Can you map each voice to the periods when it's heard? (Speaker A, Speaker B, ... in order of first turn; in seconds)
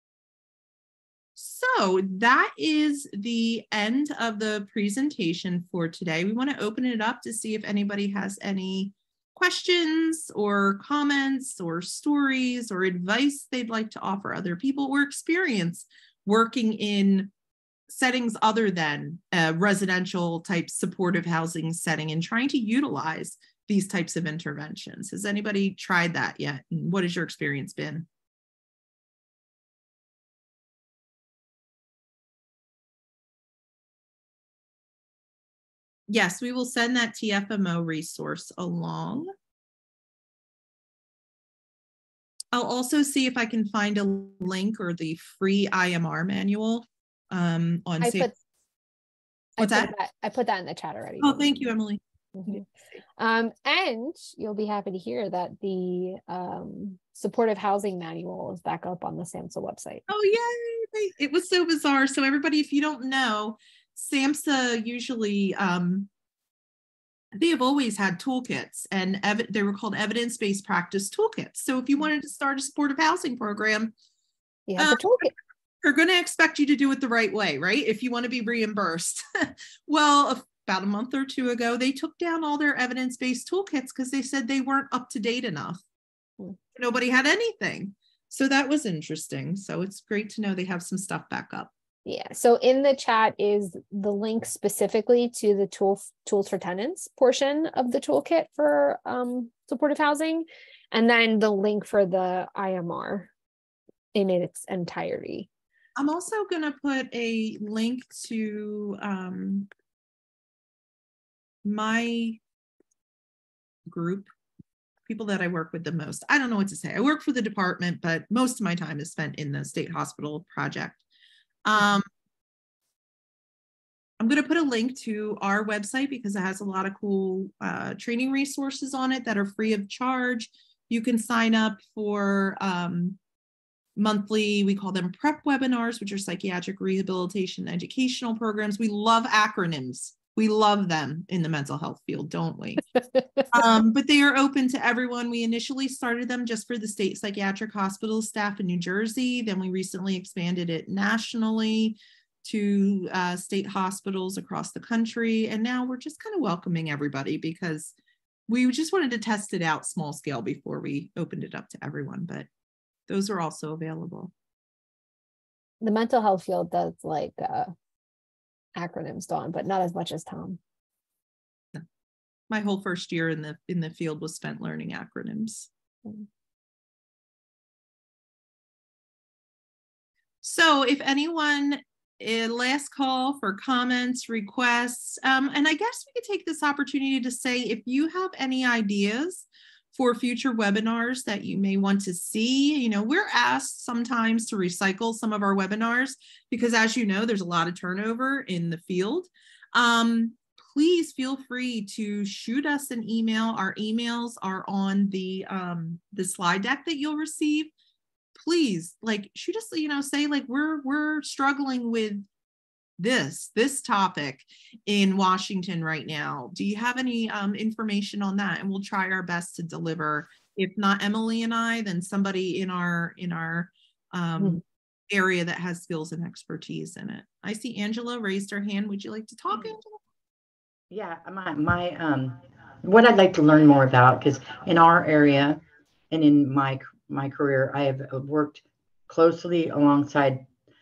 Speaker A: 1.4-17.3, 17.9-28.1, 36.1-39.3, 42.5-48.3, 49.6-49.9, 51.2-52.6, 60.1-66.1, 67.3-73.9, 74.8-75.2, 75.8-85.8, 86.8-91.7, 106.0-109.7, 111.6-112.4, 113.9-114.3, 115.0-121.0, 121.6-122.1, 124.2-133.2, 133.9-142.8, 143.5-157.9, 158.5-162.5, 163.1-164.3, 172.5-175.7, 180.4-207.7, 208.3-212.2, 213.0-230.0
Speaker B: 48.0-48.3, 49.6-51.7, 53.2-60.0, 74.7-75.3, 92.0-103.3, 104.1-105.5, 143.1-143.5, 165.8-167.7, 168.8-170.6
Speaker C: 230.9-240.4